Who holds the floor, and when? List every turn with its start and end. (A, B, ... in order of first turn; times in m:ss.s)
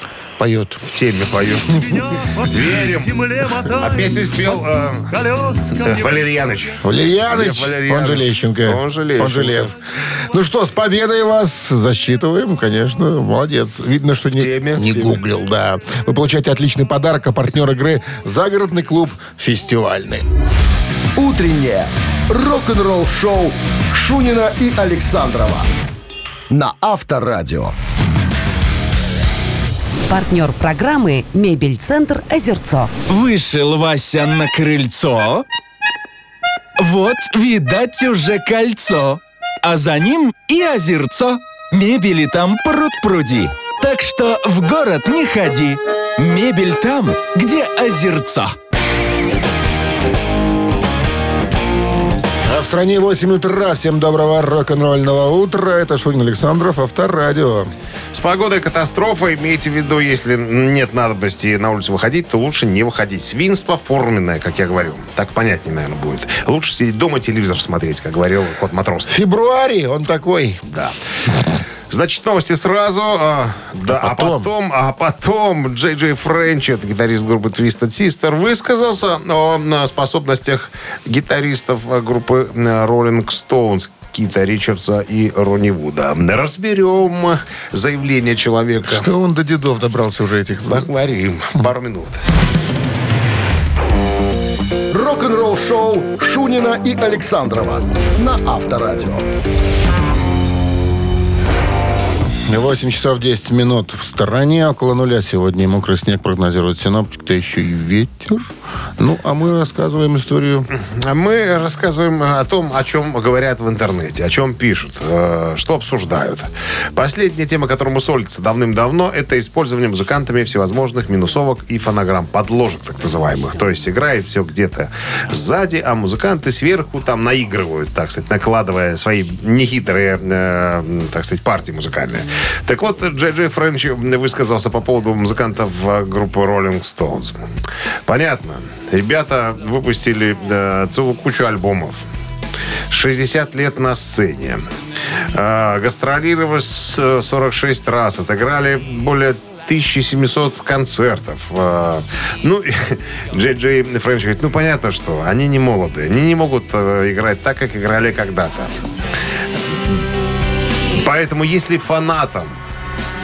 0:00.4-0:00.8 A
0:00.9-0:09.7 B
0:06.8-0:20.2 A
0:14.3-0:15.2 B
0:21.2-0:25.7 C
0:26.5-0:27.7 C
0:30.1-0:33.0 D
0:33.1-0:35.4 E
0:36.8-0:48.5 E
0:52.4-0:57.7 A
0:58.1-1:09.1 B
1:09.1-1:10.6 A
1:10.7-1:11.0 B
1:11.9-1:29.1 B
1:13.9-1:14.5 A
1:28.9-1:30.9 A
1:30.7-1:32.2 B
1:34.9-1:39.2 C
1:42.5-1:50.7 A
1:50.7-2:17.4 B
2:18.1-2:22.0 B
2:22.9-2:24.6 B
2:25.3-2:38.7 B
2:40.9-2:42.6 B